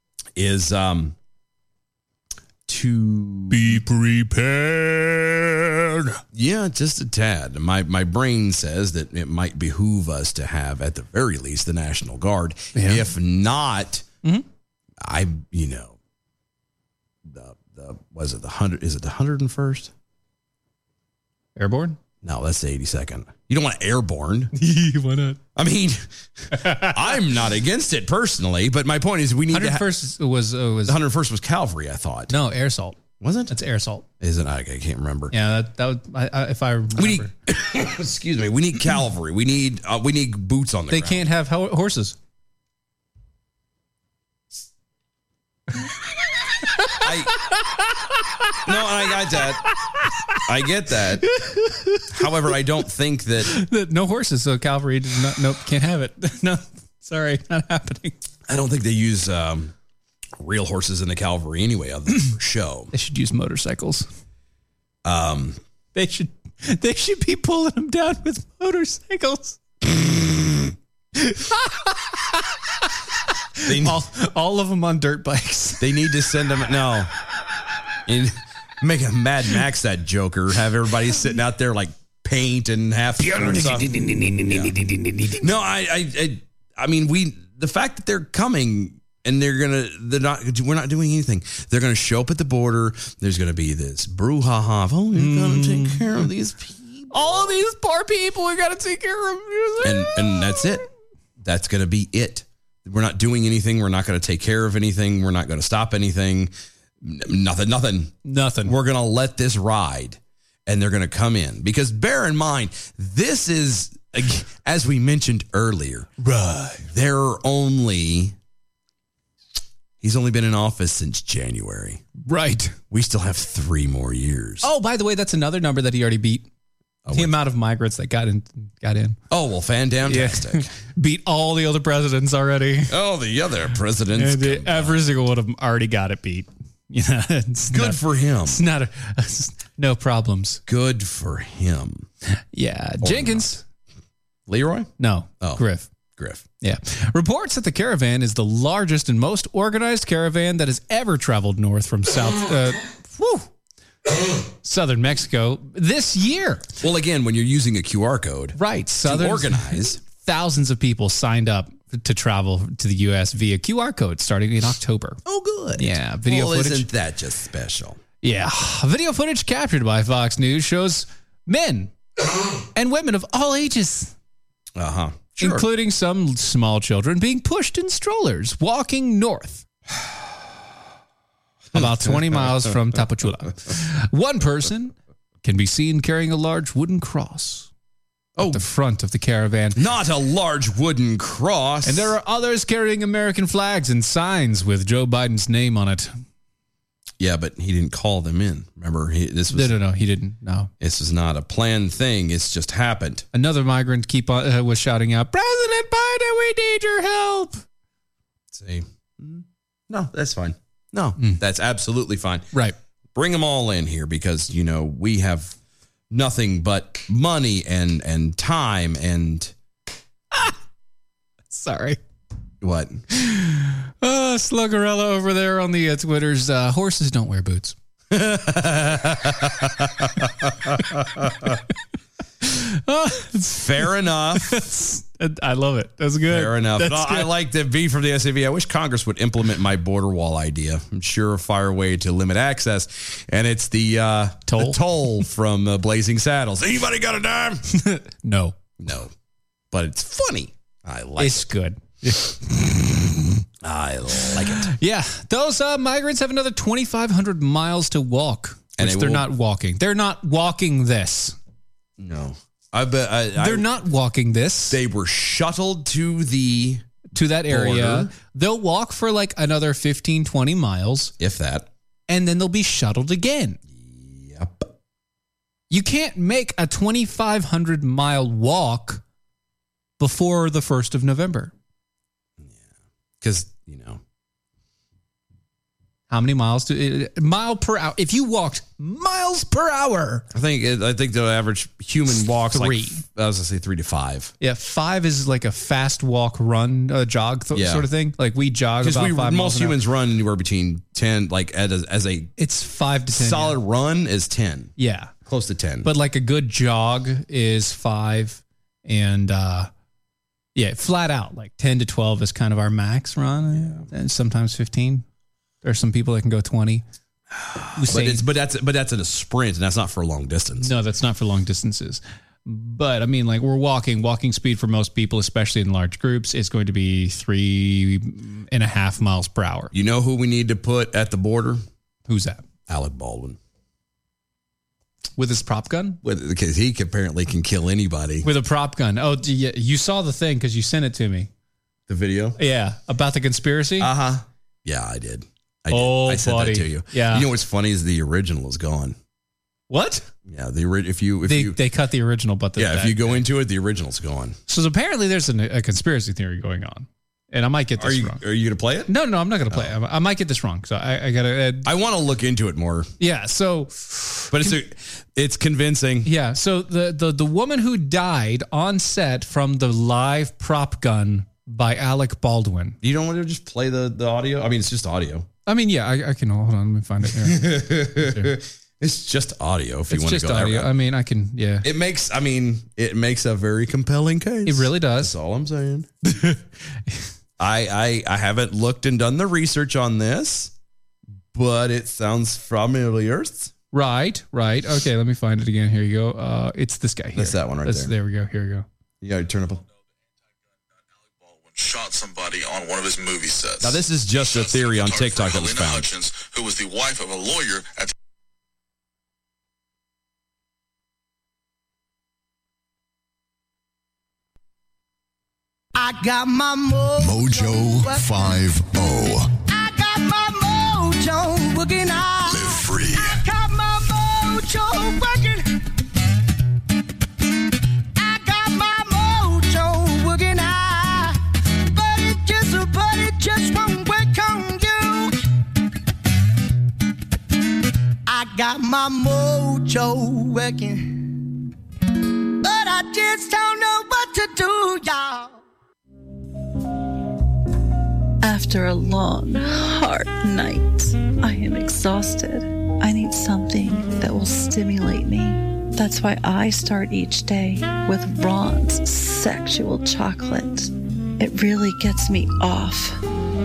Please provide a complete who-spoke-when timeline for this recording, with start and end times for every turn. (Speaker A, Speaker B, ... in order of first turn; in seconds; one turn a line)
Speaker A: 0.3-1.1
Speaker A: 2.7-3.8
Speaker B: 3.5-6.0
Speaker A: 6.3-14.0
Speaker B: 12.7-13.0
Speaker A: 15.0-16.0
Speaker A: 17.2-19.9
Speaker B: 21.6-22.0
Speaker A: 22.2-24.5
Speaker B: 24.5-25.4
Speaker A: 25.6-29.8
Speaker B: 26.6-26.9
Speaker B: 29.5-30.9
Speaker A: 30.9-32.3
Speaker B: 32.3-33.0
Speaker A: 33.2-33.5
Speaker B: 33.5-34.0
Speaker A: 34.2-35.3
Speaker B: 35.3-37.3
Speaker A: 37.0-41.3
Speaker B: 40.9-42.1
Speaker A: 47.0-47.3
Speaker A: 48.6-49.6
Speaker B: 50.0-50.4
Speaker A: 50.5-51.2
Speaker B: 51.3-52.2
Speaker A: 52.1-53.5
Speaker B: 53.5-58.1
Speaker A: 58.5-59.7
Speaker A: 60.4-62.9
Speaker B: 62.9-64.1
Speaker A: 65.0-65.6
Speaker B: 65.9-69.6
Speaker B: 71.2-72.4
Speaker B: 73.6-75.8
Speaker A: 73.6-74.0
Speaker A: 75.8-77.1
Speaker A: 78.0-83.9
Speaker B: 83.2-85.5
Speaker A: 84.5-84.7
Speaker A: 85.4-97.5
Speaker B: 95.1-96.1
Speaker B: 97.1-100.8
Speaker A: 99.8-100.8
Speaker A: 101.4-116.1
Speaker B: 108.2-108.7
Speaker B: 116.2-116.9
Speaker A: 116.9-118.3
Speaker A: 120.0-122.0
Speaker B: 122.2-122.8
Speaker A: 122.9-124.7
Speaker B: 124.6-126.5
Speaker A: 127.0-127.3
Speaker B: 127.1-129.2
Speaker A: 129.3-130.7
Speaker B: 130.0-132.9
Speaker A: 132.9-135.0
Speaker B: 134.2-140.6
Speaker A: 137.7-138.6
Speaker A: 140.7-142.1
Speaker B: 142.4-143.6
Speaker A: 143.0-143.6
Speaker A: 144.5-144.9
Speaker B: 145.0-145.9
Speaker A: 146.2-146.4
Speaker B: 146.6-153.5
Speaker B: 154.6-156.7
Speaker A: 156.8-160.0
Speaker B: 158.6-165.2
Speaker A: 165.3-168.0
Speaker B: 165.7-166.8
Speaker B: 168.2-171.9
Speaker B: 172.7-174.1
Speaker A: 174.7-175.7
Speaker B: 175.4-179.6
Speaker A: 181.7-182.8
Speaker B: 181.7-187.7
Speaker A: 188.3-188.6
Speaker B: 188.4-189.8
Speaker A: 189.8-192.1
Speaker B: 191.8-196.2
Speaker A: 197.2-199.8
Speaker B: 199.5-200.7
Speaker A: 200.8-203.2
Speaker B: 203.3-207.6
Speaker A: 208.5-212.4
Speaker A: 213.1-215.5
Speaker A: 216.1-219.5
Speaker B: 221.5-222.0
Speaker A: 222.6-223.0
Speaker B: 223.2-227.7
Speaker A: 228.1-230.7
Speaker B: 232.4-237.3
Speaker A: 233.5-234.6
Speaker A: 236.3-247.6
Speaker B: 244.5-244.8
Speaker B: 247.7-248.5
Speaker A: 248.8-249.1
Speaker A: 249.7-251.5
Speaker B: 251.2-253.3
Speaker A: 253.6-254.7
Speaker B: 254.6-261.3
Speaker A: 258.8-259.3
Speaker A: 262.0-263.6
Speaker B: 263.4-264.8
Speaker A: 264.7-266.8
Speaker B: 267.1-271.1
Speaker A: 267.4-268.1
Speaker A: 271.2-271.7
Speaker B: 272.1-273.6
Speaker A: 273.7-274.7
Speaker B: 275.7-279.0
Speaker B: 280.0-281.5
Speaker A: 283.2-284.0
Speaker B: 286.1-290.2
Speaker A: 290.3-294.3
Speaker B: 292.5-293.0
Speaker B: 294.4-299.8
Speaker A: 297.5-297.9
Speaker A: 298.8-302.3
Speaker B: 302.4-303.6
Speaker A: 303.1-304.7
Speaker B: 304.8-305.1
Speaker A: 305.2-305.9
Speaker B: 305.8-309.7
Speaker B: 310.5-315.0
Speaker A: 313.5-313.9
Speaker B: 315.6-316.8
Speaker B: 317.8-318.2
Speaker A: 317.8-320.7
Speaker B: 320.6-329.7
Speaker A: 329.7-331.6
Speaker B: 332.1-332.4
Speaker A: 332.7-333.4
Speaker B: 335.2-336.0
Speaker A: 336.0-338.3
Speaker B: 338.2-341.3
Speaker A: 341.9-342.4
Speaker B: 342.4-343.9
Speaker A: 343.8-348.9
Speaker B: 345.7-347.3
Speaker B: 349.7-350.0
Speaker A: 350.2-351.6
Speaker B: 351.3-353.2
Speaker A: 352.6-354.4
Speaker B: 354.5-358.2
Speaker A: 357.8-358.9
Speaker B: 358.9-361.7
Speaker A: 361.6-362.9
Speaker B: 363.0-364.5
Speaker A: 364.3-366.1
Speaker B: 366.0-372.8
Speaker A: 372.8-375.3
Speaker B: 375.5-378.3
Speaker A: 377.1-380.7
Speaker B: 379.9-381.6
Speaker A: 381.6-385.9
Speaker B: 384.4-385.1
Speaker A: 387.4-390.5
Speaker A: 391.3-393.5
Speaker B: 393.7-398.6
Speaker A: 397.1-397.9
Speaker A: 399.0-399.6
Speaker C: 401.1-407.9
Speaker A: 403.6-405.9
Speaker D: 415.7-418.4
Speaker E: 417.0-419.3
Speaker D: 419.5-425.4
Speaker E: 422.2-423.2
Speaker D: 427.9-435.2
Speaker D: 438.1-441.1
Speaker D: 442.4-445.4
Speaker F: 448.2-463.0